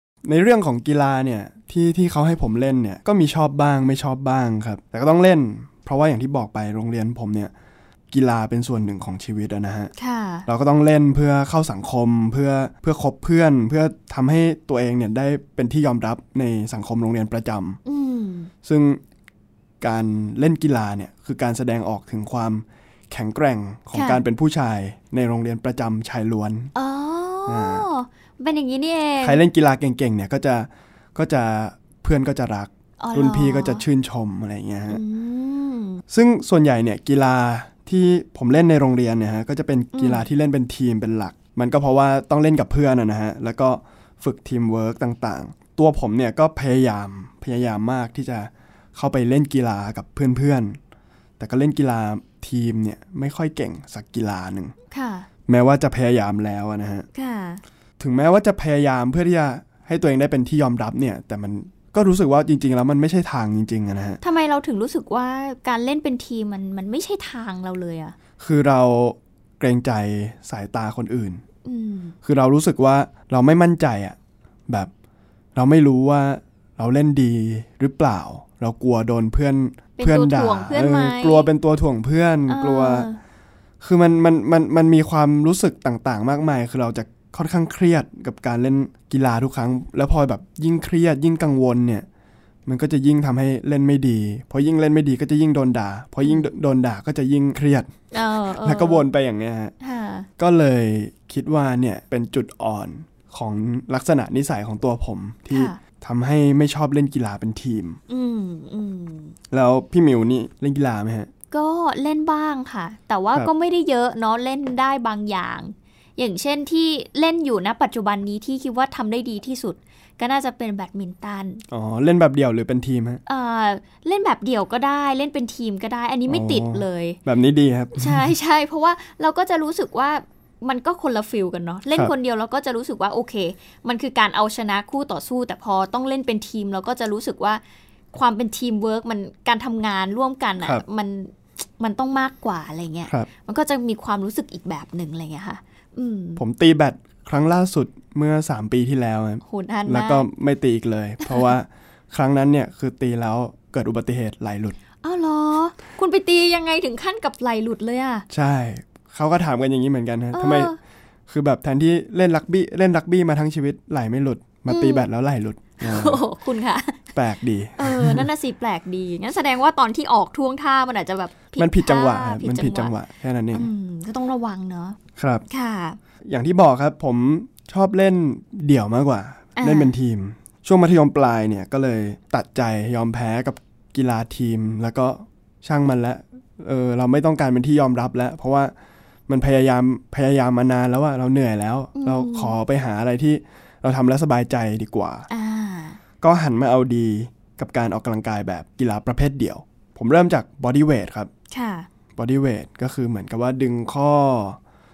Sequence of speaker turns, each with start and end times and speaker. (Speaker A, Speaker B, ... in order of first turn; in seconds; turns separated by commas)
Speaker A: 0.2-7.5, Speaker A: 8.1-9.9, Speaker B: 9.9-10.4, Speaker A: 10.4-17.8, Speaker B: 17.8-18.5, Speaker A: 18.6-19.0, Speaker A: 19.8-26.7, Speaker B: 23.9-24.2, Speaker B: 26.7-29.4, Speaker A: 27.4-27.9, Speaker A: 29.2-35.0, Speaker B: 33.0-33.8, Speaker B: 34.9-36.0, Speaker A: 36.1-50.8, Speaker B: 39.9-40.2, Speaker A: 51.4-54.7, Speaker B: 54.9-55.3, Speaker A: 55.5-57.1, Speaker B: 57.1-57.6, Speaker A: 58.0-64.2, Speaker B: 64.2-68.1, Speaker A: 68.4-71.4, Speaker B: 71.6-72.2, Speaker A: 72.2-74.2, Speaker A: 75.5-83.1, Speaker B: 80.0-81.5, Speaker B: 82.5-83.2, Speaker A: 83.8-92.1, Speaker A: 92.7-97.9, Speaker B: 96.2-96.5, Speaker B: 98.1-99.1, Speaker A: 98.6-99.7, Speaker B: 99.8-100.3, Speaker A: 100.4-108.0, Speaker B: 105.5-105.8, Speaker B: 108.1-109.3, Speaker A: 109.5-111.3, Speaker B: 111.5-121.6, Speaker A: 121.7-123.2, Speaker B: 123.3-127.2, Speaker A: 126.3-128.3, Speaker B: 127.9-137.6, Speaker B: 138.1-146.4, Speaker A: 146.4-154.8, Speaker B: 149.4-150.3, Speaker B: 155.0-158.2, Speaker A: 158.3-160.7, Speaker B: 160.3-160.8, Speaker A: 161.3-166.2, Speaker B: 164.7-165.1, Speaker B: 165.8-167.0, Speaker A: 167.1-168.3, Speaker B: 167.8-172.9, Speaker A: 171.6-173.7, Speaker B: 173.5-175.0, Speaker A: 175.2-175.4, Speaker B: 175.5-176.0, Speaker A: 176.2-188.7, Speaker B: 179.6-179.9, Speaker A: 189.3-195.3, Speaker B: 191.9-192.6, Speaker B: 195.3-196.0, Speaker A: 196.2-201.3, Speaker B: 201.5-201.9, Speaker A: 202.1-204.6